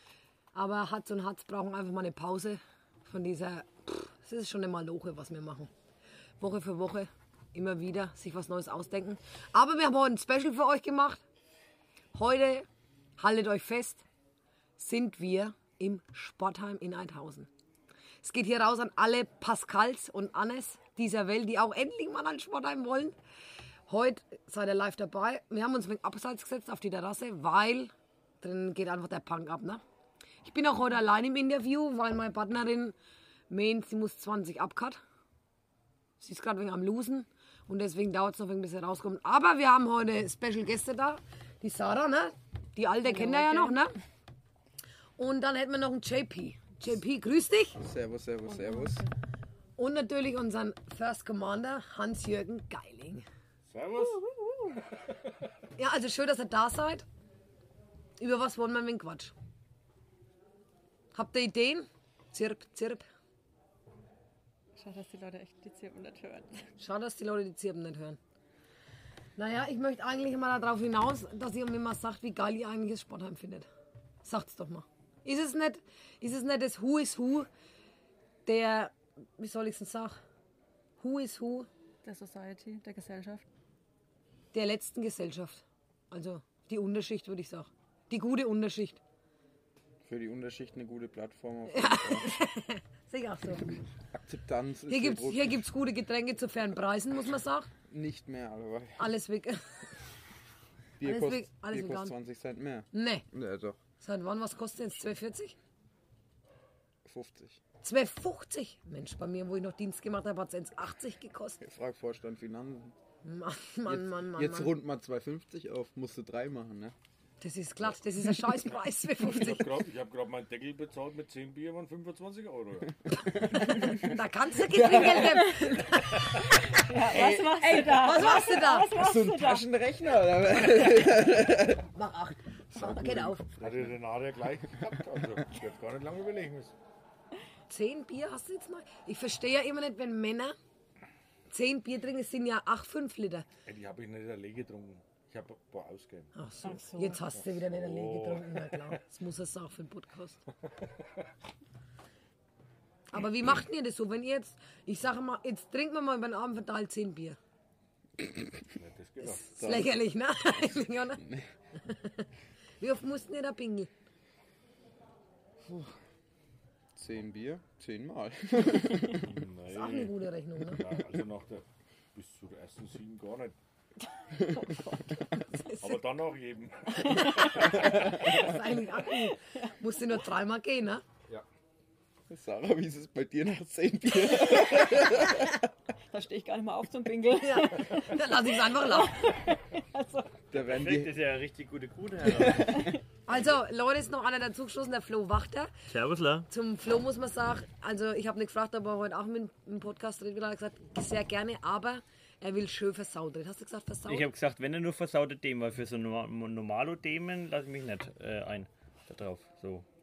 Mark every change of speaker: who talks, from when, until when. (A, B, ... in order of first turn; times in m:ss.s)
0:00.5-0:05.7 A
0:06.4-0:11.2 A
0:12.2-0:12.7 A
0:13.2-0:14.0 A
0:14.8-0:17.5 A
0:18.2-0:23.2 A
0:23.9-0:29.8 A
0:30.4-0:33.0 A
0:33.5-0:35.0 A
0:36.2-0:44.0 A
0:43.0-0:43.8 B
0:45.2-0:47.8 A
0:47.8-0:49.0 C
0:48.5-0:49.1 B
0:49.8-0:53.2 A
0:53.7-0:54.2 D
0:54.9-0:55.4 D
0:55.8-0:57.0 A
0:58.2-0:59.3 A
1:01.1-1:03.1 A
1:04.8-1:06.6 B
1:06.8-1:08.2 A
1:09.4-1:13.7 A
1:14.2-1:17.5 A
1:18.5-1:20.2 A
1:21.0-1:21.7 A
1:22.0-1:23.4 B
1:24.5-1:29.0 A
1:30.0-1:32.4 C
1:31.7-1:33.8 A
1:34.1-1:35.6 C
1:34.9-1:37.7 A
1:37.9-1:39.1 C
1:39.0-1:39.6 A
1:41.0-1:43.8 C
1:41.0-1:42.2 A
1:42.9-1:43.3 A
1:44.0-1:45.6 A
1:47.0-1:47.6 C
1:47.8-1:51.6 A
1:51.6-1:53.0 C
1:53.2-1:54.7 A
1:53.9-1:57.0 C
1:57.4-1:59.8 A
1:59.2-2:03.0 D
2:03.2-2:04.0 C
2:03.5-2:06.6 A
2:04.7-2:05.4 C
2:05.2-2:05.7 B
2:06.8-2:09.7 B
2:07.1-2:07.5 C
2:07.9-2:08.9 A
2:08.9-2:11.8 C
2:11.9-2:13.4 A
2:12.8-2:14.0 C
2:13.6-2:16.7 D
2:17.7-2:20.6 A
2:21.5-2:23.5 A
2:23.7-2:26.3 D
2:26.4-2:30.4 A
2:26.6-2:27.2 B
2:27.4-2:28.7 D
2:33.1-2:37.4 A
2:38.8-2:39.6 D
2:39.3-2:41.2 A
2:39.6-2:39.9 C
2:41.2-2:41.5 C
2:41.8-2:42.3 A
2:42.8-2:43.9 A
2:47.0-2:49.3 C
2:49.2-2:53.6 D
2:49.7-2:50.8 A
2:54.5-2:55.0 B
2:55.5-2:56.0 A
2:55.8-2:57.8 D
2:57.1-2:58.4 B
2:57.4-3:01.0 A
2:59.1-2:59.4 B
3:02.3-3:05.6 C
3:06.1-3:10.3 B
3:07.4-3:09.3 A
3:10.5-3:11.2 C
3:10.6-3:12.9 E
3:12.2-3:12.9 C
3:13.3-3:15.7 A
3:15.9-3:16.5 E
3:16.5-3:24.2 A
3:24.1-3:29.9 E